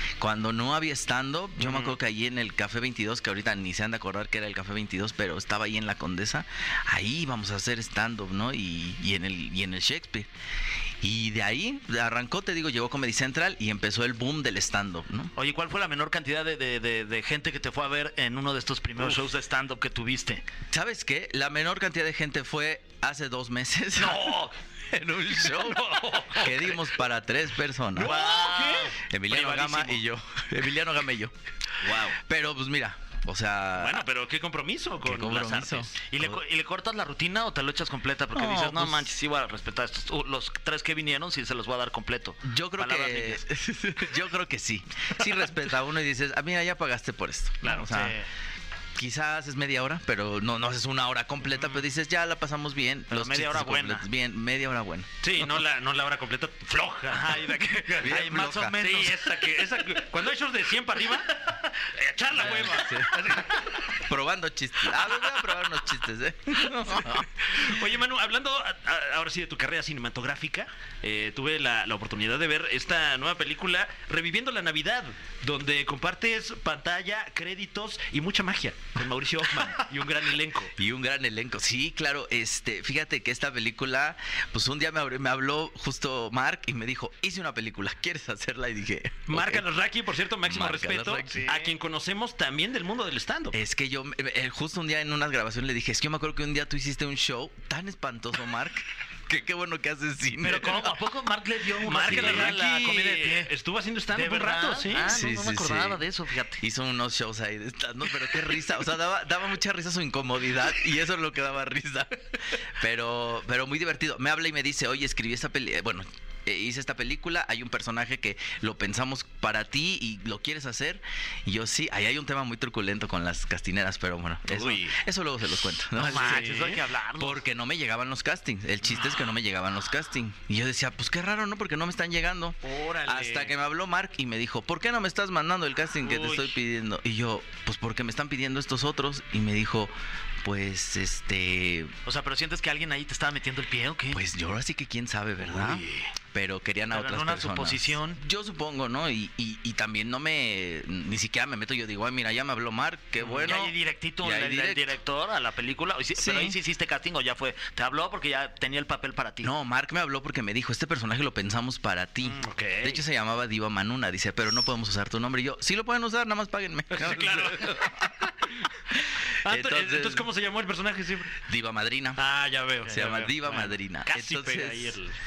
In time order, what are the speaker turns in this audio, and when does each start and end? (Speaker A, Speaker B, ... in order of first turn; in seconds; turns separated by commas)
Speaker A: 0.2-10.3, Speaker B: 1.6-2.0, Speaker A: 11.0-15.3, Speaker C: 15.4-20.4, Speaker A: 20.7-28.2, Speaker C: 24.0-24.5, Speaker B: 25.5-26.8, Speaker B: 28.0-30.0, Speaker C: 28.0-29.0, Speaker A: 29.1-31.3, Speaker B: 31.8-32.2, Speaker A: 32.2-34.0, Speaker B: 33.8-36.0, Speaker A: 35.0-36.4, Speaker C: 36.1-43.4, Speaker A: 38.3-39.1, Speaker A: 42.4-48.1, Speaker C: 47.6-48.3, Speaker A: 49.0-55.1, Speaker B: 51.5-51.8, Speaker C: 53.1-54.0, Speaker B: 55.2-58.1, Speaker C: 57.1-59.3, Speaker A: 58.0-58.8, Speaker B: 58.7-63.9, Speaker A: 62.3-63.2, Speaker A: 64.0-67.8, Speaker B: 67.1-80.8, Speaker A: 80.8-89.7, Speaker B: 89.3-93.6, Speaker A: 90.4-91.4, Speaker C: 91.2-91.8, Speaker A: 93.5-101.0, Speaker C: 100.4-103.5, Speaker B: 101.8-105.1, Speaker A: 102.0-102.6, Speaker C: 104.1-106.6, Speaker A: 105.0-106.0, Speaker A: 106.6-126.5, Speaker B: 124.5-124.8, Speaker C: 126.0-127.4, Speaker B: 126.1-126.8, Speaker A: 127.2-141.9, Speaker C: 132.7-133.5, Speaker C: 136.0-136.5, Speaker C: 142.0-144.2, Speaker A: 144.1-154.9, Speaker C: 145.4-146.1, Speaker C: 146.9-148.2, Speaker B: 153.2-153.5, Speaker C: 153.3-159.5, Speaker A: 156.2-156.6, Speaker A: 159.4-168.3, Speaker B: 162.3-163.0, Speaker B: 166.9-168.7, Speaker A: 168.9-170.3, Speaker B: 169.4-171.4, Speaker A: 171.5-172.2, Speaker B: 172.2-175.1, Speaker A: 172.9-175.0